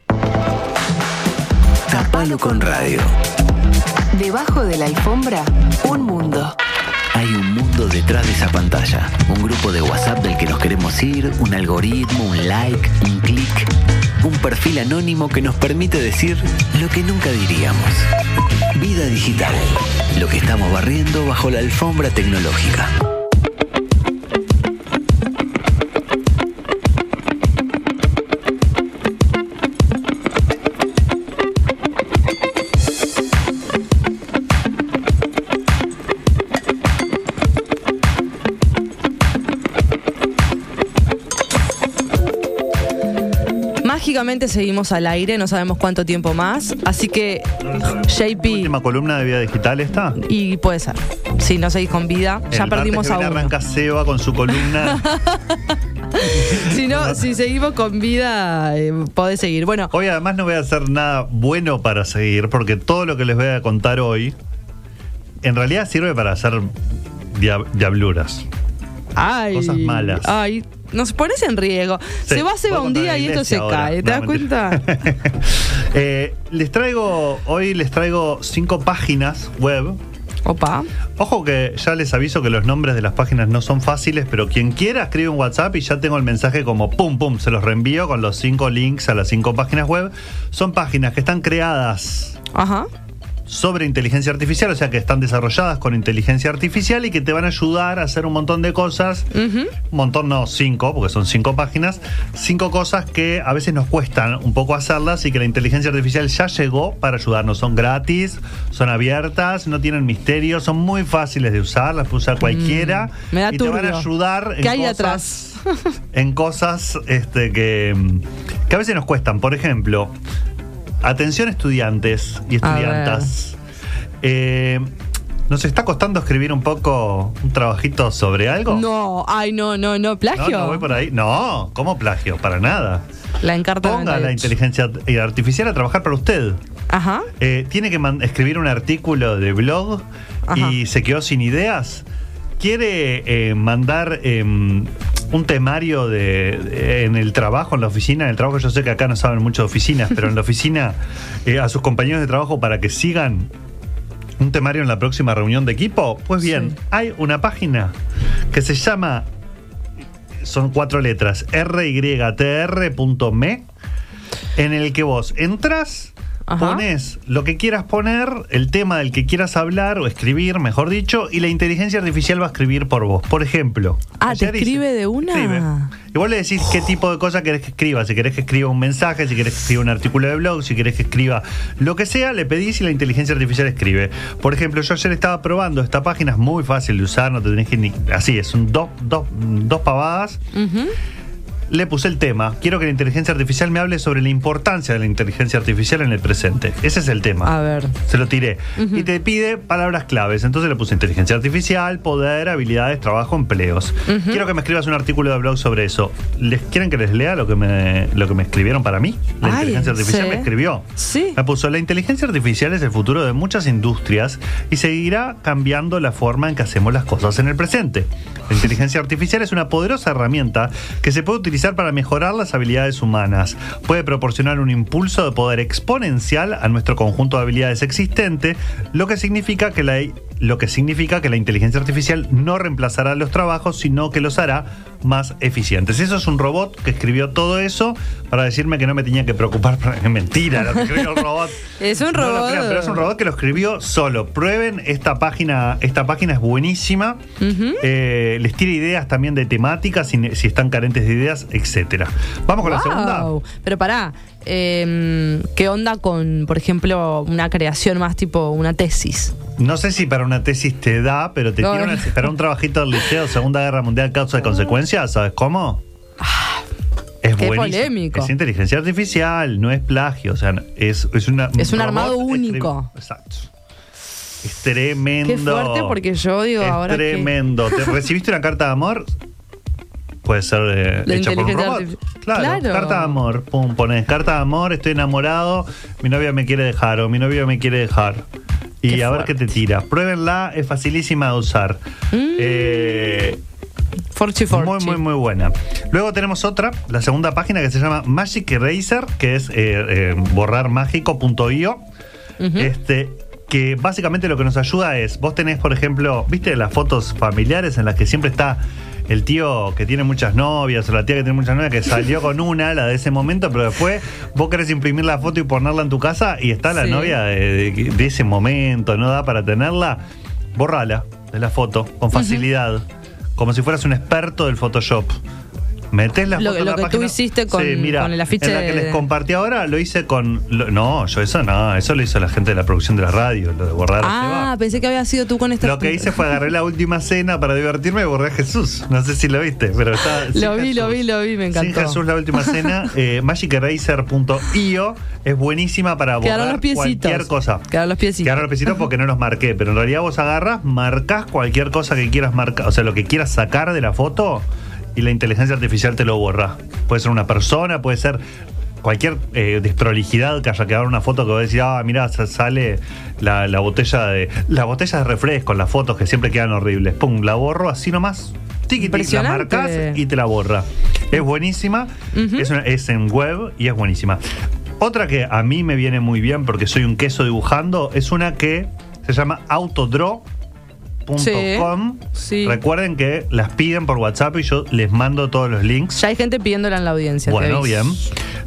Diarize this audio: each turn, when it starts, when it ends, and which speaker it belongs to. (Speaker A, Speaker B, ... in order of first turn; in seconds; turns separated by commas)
Speaker A: 1.9-3.0, Speaker B: 1.9-3.1, Speaker A: 4.1-6.5, Speaker B: 7.1-13.7, Speaker B: 14.2-18.1, Speaker B: 18.8-22.9, Speaker C: 43.8-48.7, Speaker D: 47.6-50.2, Speaker C: 50.1-53.5, Speaker D: 52.5-55.1, Speaker C: 54.8-59.9, Speaker D: 56.2-57.4, Speaker D: 59.9-64.4, Speaker D: 65.4-68.5, Speaker C: 69.2-74.9, Speaker D: 69.5-70.3, Speaker D: 72.3-80.0, Speaker C: 80.5-80.9, Speaker D: 81.2-92.4, Speaker C: 92.5-92.9, Speaker D: 93.5-99.3, Speaker C: 99.3-99.8, Speaker D: 99.8-115.6, Speaker C: 112.4-115.8, Speaker D: 116.1-120.2, Speaker D: 121.0-123.6, Speaker C: 122.6-123.3, Speaker D: 124.2-124.9, Speaker D: 125.5-128.8, Speaker C: 128.7-130.9, Speaker D: 130.3-133.1, Speaker C: 133.4-134.5, Speaker D: 133.8-136.6, Speaker C: 136.9-137.3, Speaker D: 137.4-142.1, Speaker C: 140.5-140.8, Speaker D: 142.6-153.5, Speaker D: 154.4-157.9, Speaker D: 158.5-159.3, Speaker D: 160.4-163.7, Speaker D: 164.6-190.4, Speaker C: 166.5-166.8, Speaker C: 174.2-175.9, Speaker C: 190.5-190.9, Speaker D: 191.7-247.2, Speaker C: 197.4-198.0, Speaker C: 198.8-199.1, Speaker C: 204.1-204.4, Speaker C: 209.4-211.4, Speaker C: 240.7-241.0, Speaker C: 241.8-243.1, Speaker C: 247.4-247.8, Speaker D: 247.8-253.3, Speaker C: 252.6-259.4, Speaker D: 259.6-265.8, Speaker C: 261.6-262.3, Speaker C: 266.2-266.6, Speaker D: 267.2-273.5, Speaker C: 267.4-268.3, Speaker C: 271.6-272.9, Speaker D: 274.4-276.0, Speaker C: 275.2-277.9, Speaker D: 276.6-279.1, Speaker D: 280.2-288.3, Speaker C: 281.1-283.2, Speaker D: 288.8-291.8, Speaker C: 288.9-289.4, Speaker C: 292.1-293.2, Speaker D: 292.3-293.4, Speaker C: 294.1-295.0, Speaker D: 294.5-301.8, Speaker C: 302.4-302.7, Speaker D: 302.6-320.0, Speaker C: 316.8-317.2, Speaker D: 320.6-325.2, Speaker C: 322.1-322.5, Speaker D: 325.9-334.5, Speaker C: 326.3-329.1, Speaker C: 334.0-336.3, Speaker D: 335.6-347.7, Speaker C: 340.3-342.8, Speaker C: 346.2-348.6, Speaker D: 348.2-358.2, Speaker D: 358.8-374.2, Speaker C: 368.8-370.0, Speaker C: 372.1-372.5, Speaker D: 374.8-380.3, Speaker D: 381.1-386.1, Speaker C: 381.2-382.6, Speaker C: 386.0-388.0, Speaker D: 387.3-388.1